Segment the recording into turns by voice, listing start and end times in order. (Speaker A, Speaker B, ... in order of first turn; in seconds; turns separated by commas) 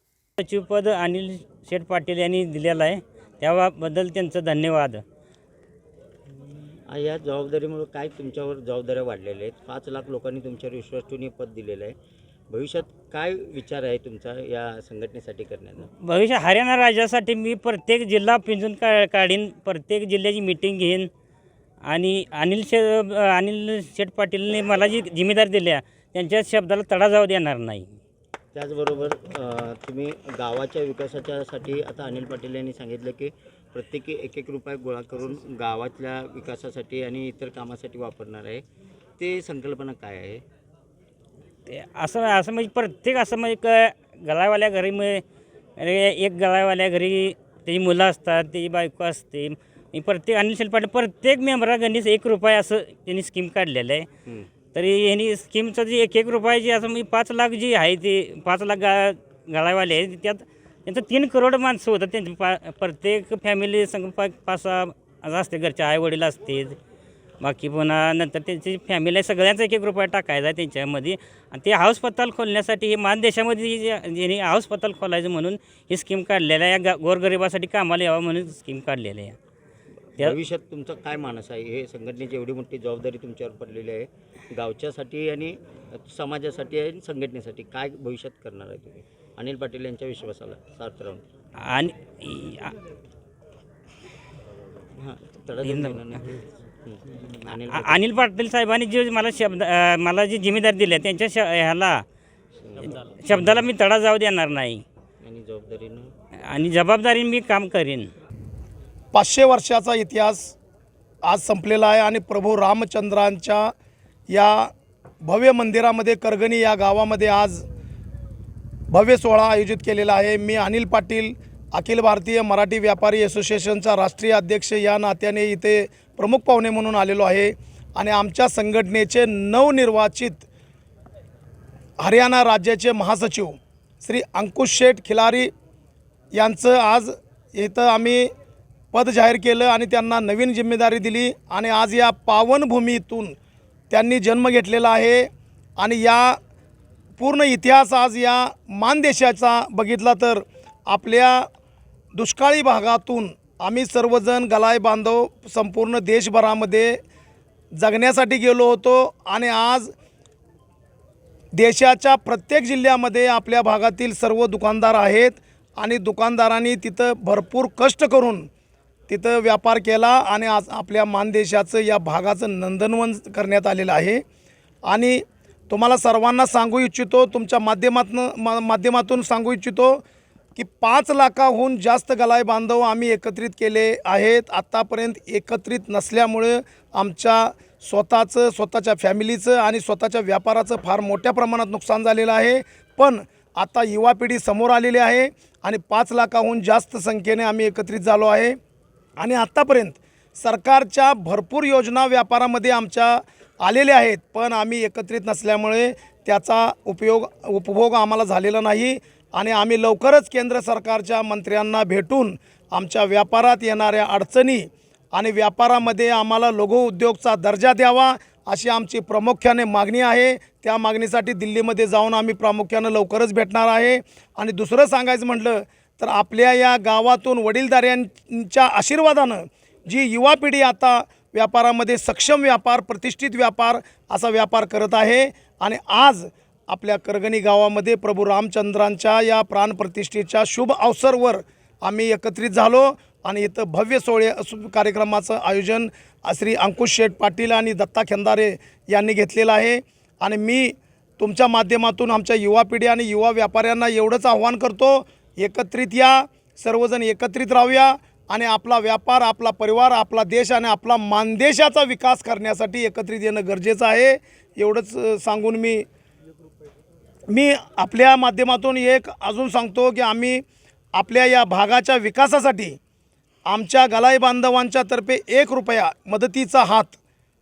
Speaker A: 0.4-5.0, Speaker B: 6.9-11.9, Speaker B: 12.5-15.9, Speaker A: 16.0-21.1, Speaker A: 21.8-27.9, Speaker B: 28.5-38.6, Speaker B: 39.2-40.4, Speaker A: 41.7-45.2, Speaker A: 45.8-54.1, Speaker A: 54.7-66.8, Speaker A: 67.4-79.3, Speaker B: 80.2-91.2, Speaker A: 91.5-92.7, Speaker B: 95.0-98.0, Speaker A: 95.6-96.3, Speaker A: 97.6-102.0, Speaker B: 102.6-103.7, Speaker A: 102.9-104.8, Speaker B: 105.2-106.1, Speaker A: 106.4-108.1, Speaker C: 109.1-110.5, Speaker C: 111.2-113.7, Speaker C: 114.3-117.6, Speaker C: 118.9-130.4, Speaker C: 132.0-135.5, Speaker C: 136.3-138.3, Speaker C: 138.9-143.3, Speaker C: 143.9-146.4, Speaker C: 147.2-151.5, Speaker C: 152.1-157.0, Speaker C: 157.7-159.9, Speaker C: 161.5-168.5, Speaker C: 169.1-174.2, Speaker C: 174.8-180.0, Speaker C: 180.6-198.6, Speaker C: 199.2-265.9, Speaker C: 267.3-270.4, Speaker C: 270.9-272.8, Speaker C: 273.4-277.0